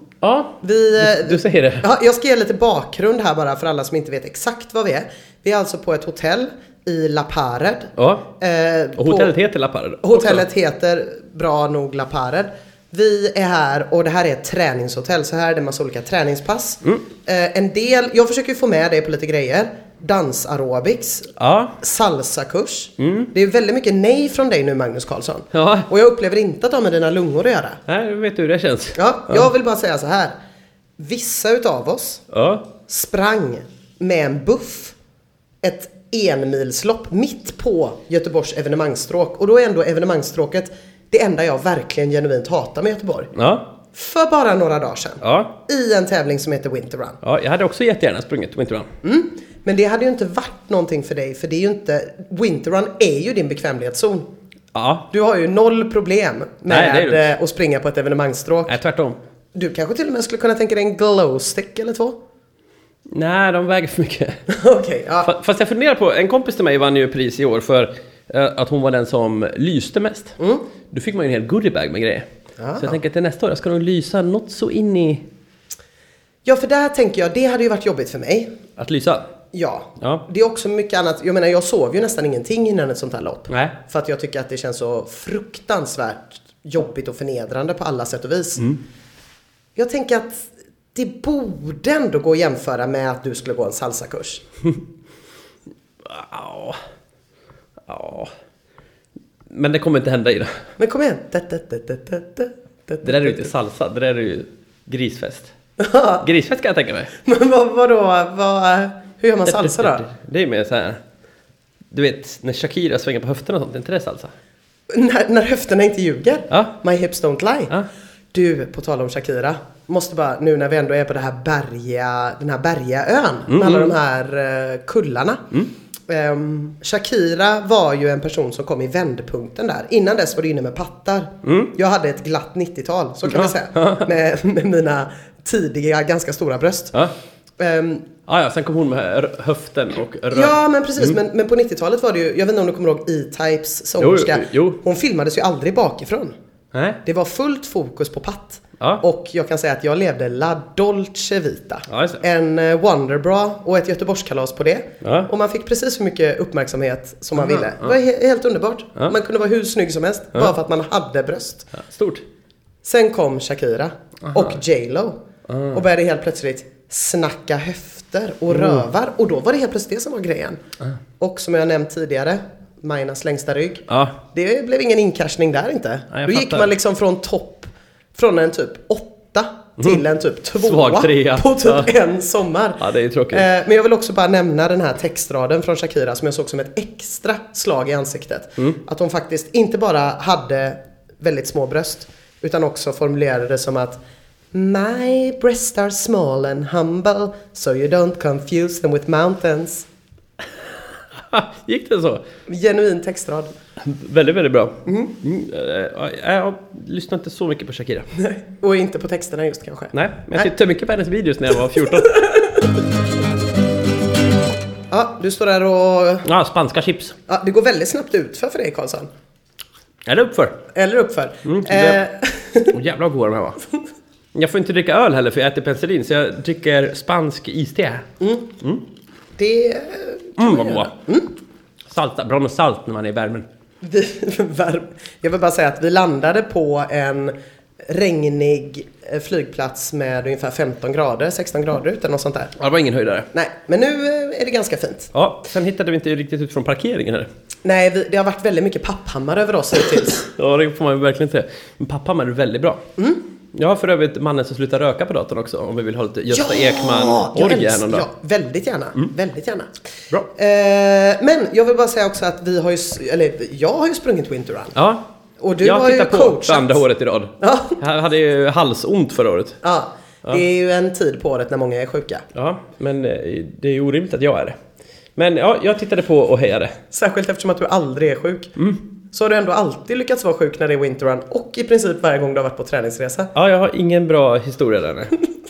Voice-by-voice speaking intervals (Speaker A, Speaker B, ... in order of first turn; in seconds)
Speaker A: 0.2-1.9, 8.0-8.3, 9.0-10.5, 21.4-21.8, 23.0-23.3, 25.5-25.9, 27.9-29.5, 32.3-32.7, 43.3-43.7, 45.2-45.5, 47.2-48.9, 54.7-55.1, 56.7-57.3, 58.7-59.2, 63.1-64.4, 65.2-70.3, 70.9-72.2, 72.8-75.2, 78.8-79.2, 80.0-80.2, 83.5-83.8, 96.0-96.8, 97.9-98.3, 99.5-100.6, 103.0-105.5, 106.2-107.1, 109.5-111.0, 111.9-114.3, 116.5-116.7, 123.5-124.0, 131.4-131.7, 133.3-134.1, 138.3-141.2, 144.0-144.8, 146.7-147.0, 148.8-149.0, 151.9-152.2, 155.0-155.3, 157.3-158.0, 161.7-162.2, 164.3-164.5, 165.5-165.8, 168.5-168.9, 173.9-174.2, 176.1-176.7, 180.6-182.0, 182.8-183.5, 201.1-202.2, 203.8-208.1, 209.9-212.3, 216.2-217.2, 220.1-220.6, 221.4-222.0, 222.7-223.6, 224.3-228.0, 230.4-230.9, 231.9-233.4, 242.6-243.3, 245.1-247.3, 250.2-252.8, 253.5-258.1, 264.8-265.1, 265.6-269.6, 272.3-274.6, 275.1-276.7, 283.4-285.2
Speaker B: 0.6-9.4, 10.0-27.8, 28.9-30.3, 31.0-32.2, 32.8-34.9, 35.6-43.3, 43.9-47.2, 49.0-54.3, 55.1-58.8, 59.5-62.2, 64.5-65.3, 70.4-70.7, 72.6-73.0, 76.4-78.5, 79.5-88.8, 89.8-94.4, 100.8-103.5, 105.8-106.3, 107.2-110.0, 114.9-117.7, 118.3-125.4, 126.1-137.0, 137.6-138.1, 140.3-146.3, 147.0-161.8, 162.8-170.6, 171.2-194.0, 194.5-199.9, 202.5-203.5, 204.8-205.1, 208.2-210.5, 212.0-212.6, 214.9-216.3, 217.3-219.1, 220.7-222.8, 228.2-228.5, 229.3-231.3, 233.8-242.5, 243.3-245.1, 247.6-250.2, 256.3-259.7, 260.3-264.8, 265.4-266.8, 267.4-267.8, 269.6-272.2, 276.9-278.6, 279.1-283.3